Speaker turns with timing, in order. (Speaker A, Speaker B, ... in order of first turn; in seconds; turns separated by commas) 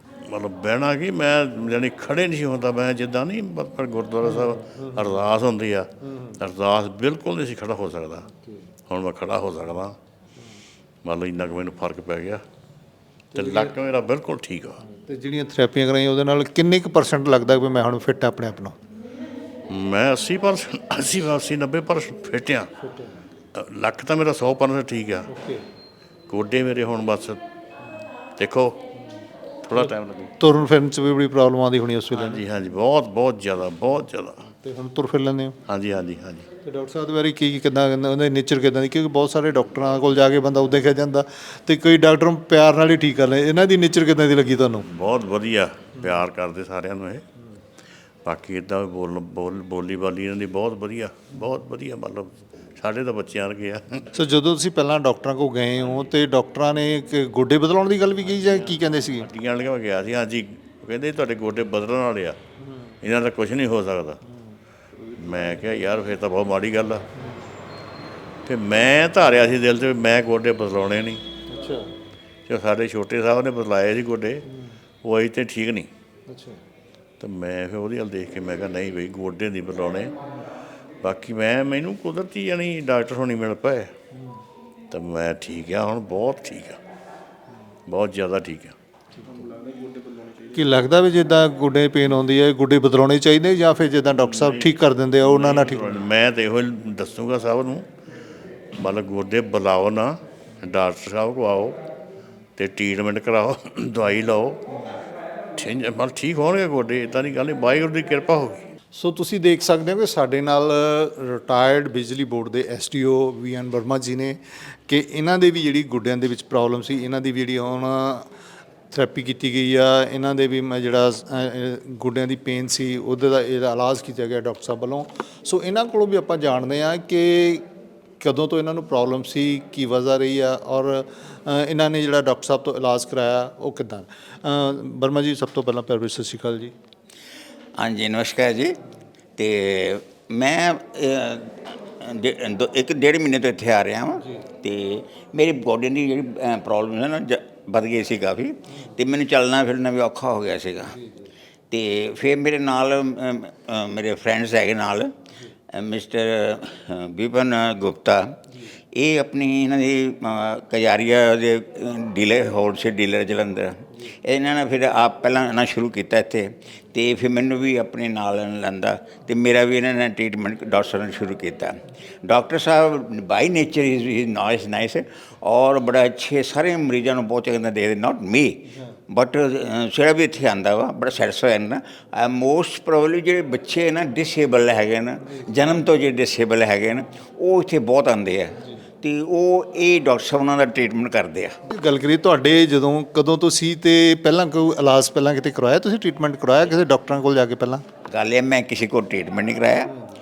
Speaker A: 0.2-8.3, Speaker B: 4.5-5.0, Speaker A: 8.9-10.0, Speaker A: 11.0-12.4, Speaker B: 13.3-13.7, Speaker A: 13.3-14.8, Speaker B: 14.9-18.8, Speaker A: 19.7-22.7, Speaker B: 22.8-23.2, Speaker A: 23.6-25.3, Speaker B: 25.3-25.6, Speaker A: 26.3-27.4, Speaker A: 28.4-28.8, Speaker A: 29.6-30.3, Speaker B: 29.8-32.4, Speaker A: 32.1-34.4, Speaker B: 34.6-35.6, Speaker A: 35.7-36.5, Speaker B: 36.6-44.9, Speaker A: 44.9-47.2, Speaker A: 48.2-54.0, Speaker B: 54.1-59.3, Speaker A: 58.3-62.4, Speaker A: 63.0-64.2, Speaker A: 65.2-67.0, Speaker A: 68.5-71.2, Speaker B: 71.5-71.9, Speaker A: 72.5-74.4, Speaker A: 75.0-75.9, Speaker B: 76.3-76.6, Speaker A: 77.2-80.1, Speaker A: 81.0-83.9, Speaker A: 84.9-86.8, Speaker A: 87.9-88.8, Speaker B: 90.5-95.9, Speaker A: 94.2-97.9, Speaker A: 98.8-101.8, Speaker A: 102.6-104.6, Speaker A: 105.6-108.6, Speaker B: 108.9-118.3, Speaker B: 118.9-127.7, Speaker B: 128.2-136.7, Speaker C: 137.8-138.8, Speaker C: 139.4-150.9, Speaker B: 150.9-151.3, Speaker C: 151.7-155.1, Speaker C: 155.7-158.4, Speaker C: 158.9-191.6, Speaker B: 191.7-197.8, Speaker C: 198.1-199.9